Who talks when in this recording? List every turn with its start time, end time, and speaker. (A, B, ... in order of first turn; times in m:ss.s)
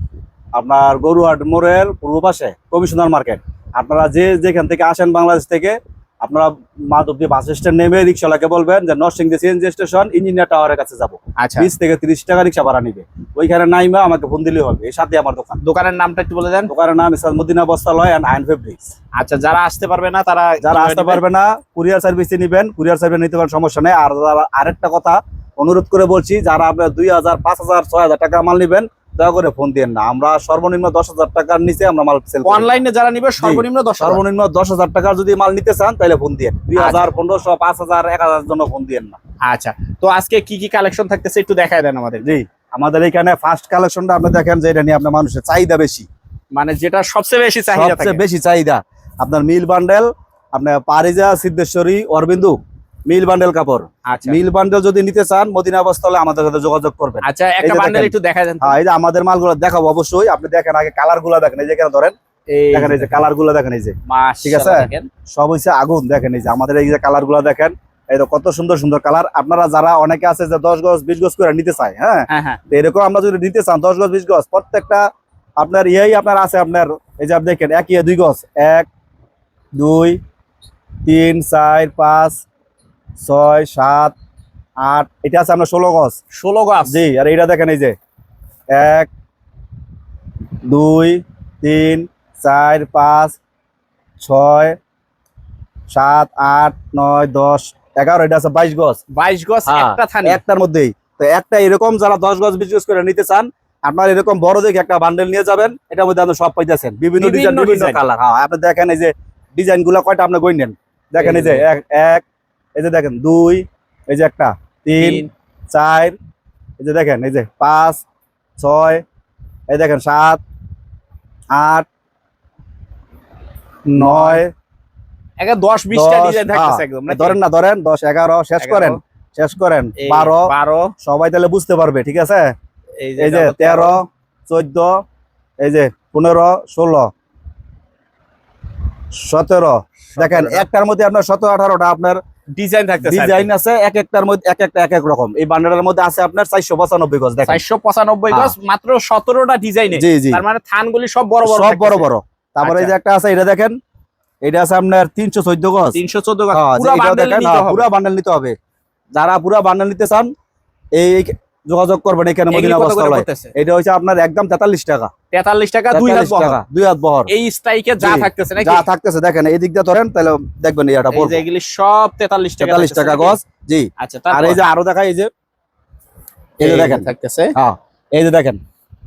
0:00.6-0:15.6 A
0:11.4-0:11.7 B
0:15.6-0:16.7 B
0:16.7-0:18.9 A
0:19.2-0:21.2 B
0:20.6-0:32.7 A
0:32.4-0:34.2 B
0:33.4-0:39.2 A
0:36.8-0:37.2 B
0:39.4-0:42.3 B
0:42.2-0:46.1 A
0:46.5-0:48.2 B
0:47.7-1:02.2 A
0:54.1-0:54.4 B
0:57.2-0:58.8 B
1:02.5-1:03.2 B
1:02.7-1:15.0 A
1:04.1-1:05.1 B
1:12.3-1:12.6 B
1:15.6-1:18.9 A
1:19.8-1:20.2 A
1:21.0-1:22.4 A
1:23.2-1:24.2 A
1:24.8-1:26.2 A
1:26.3-1:27.0 B
1:26.9-1:28.0 A
1:28.7-1:29.1 A
1:30.7-1:33.4 A
1:34.2-1:34.8 A
1:35.9-1:39.0 A
1:39.1-1:40.4 B
1:39.7-1:52.2 A
1:47.2-1:48.0 B
1:51.2-1:51.7 B
1:52.8-1:56.2 A
1:55.0-1:55.3 B
1:56.8-1:58.0 A
1:58.6-1:59.0 A
1:59.7-2:00.4 A
2:01.5-2:01.9 A
2:03.9-2:04.4 B
2:04.0-2:04.5 A
2:05.4-2:07.4 B
2:05.9-2:12.5 A
2:08.6-2:09.0 B
2:10.0-2:10.9 B
2:13.0-2:14.0 B
2:13.2-2:15.0 A
2:15.6-2:17.1 A
2:19.2-2:22.2 A
2:20.1-2:20.7 B
2:22.6-2:23.5 B
2:23.0-2:27.6 A
2:27.5-2:32.1 B
2:29.9-2:30.4 A
2:31.4-2:33.8 A
2:32.6-2:32.9 B
2:34.4-2:36.0 A
2:35.9-2:37.9 B
2:36.5-2:38.5 A
2:39.2-2:40.3 A
2:41.0-2:45.1 A
2:42.5-2:43.5 B
2:45.3-2:46.6 B
2:45.9-2:47.3 A
2:47.3-2:48.9 B
2:48.0-2:51.4 A
2:51.1-2:53.4 B
2:52.6-2:55.3 A
2:54.0-2:54.6 B
2:56.6-2:57.5 B
2:56.6-2:58.6 A